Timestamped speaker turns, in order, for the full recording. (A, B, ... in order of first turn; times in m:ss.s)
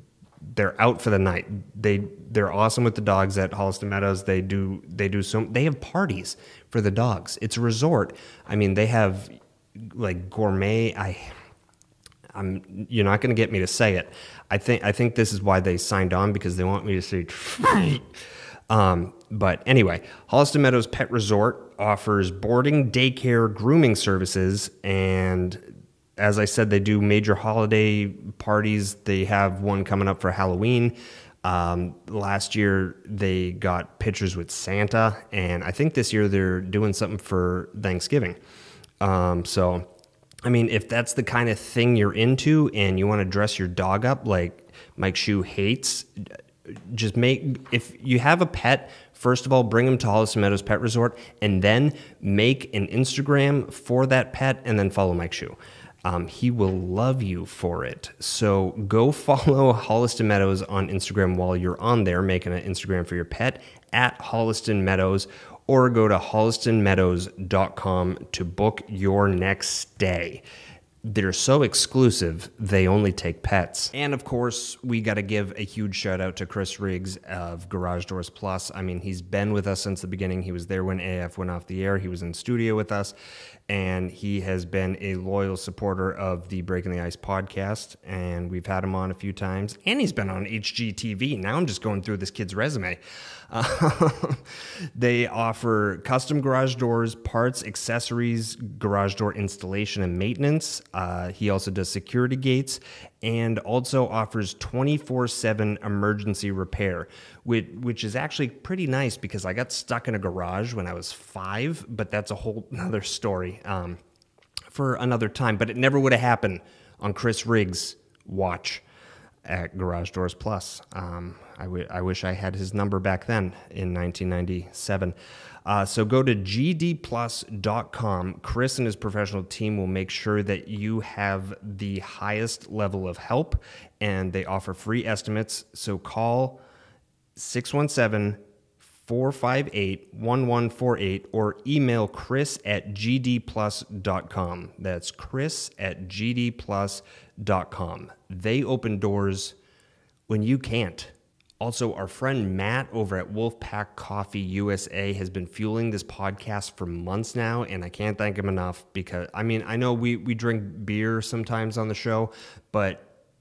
0:00.5-0:11.3 A
0:12.3-0:18.0 A
0:18.7-0:25.6 A
0:26.2-0:38.4 A
0:39.0-0:39.9 A
0:40.4-1:10.4 A
1:11.0-1:23.1 A
1:23.7-1:34.4 A
1:34.9-1:54.0 A
1:54.7-1:58.8 A
1:59.4-2:05.1 A
2:05.6-2:16.6 A
2:17.4-2:18.4 A
2:19.0-2:29.6 A
2:30.3-2:43.1 A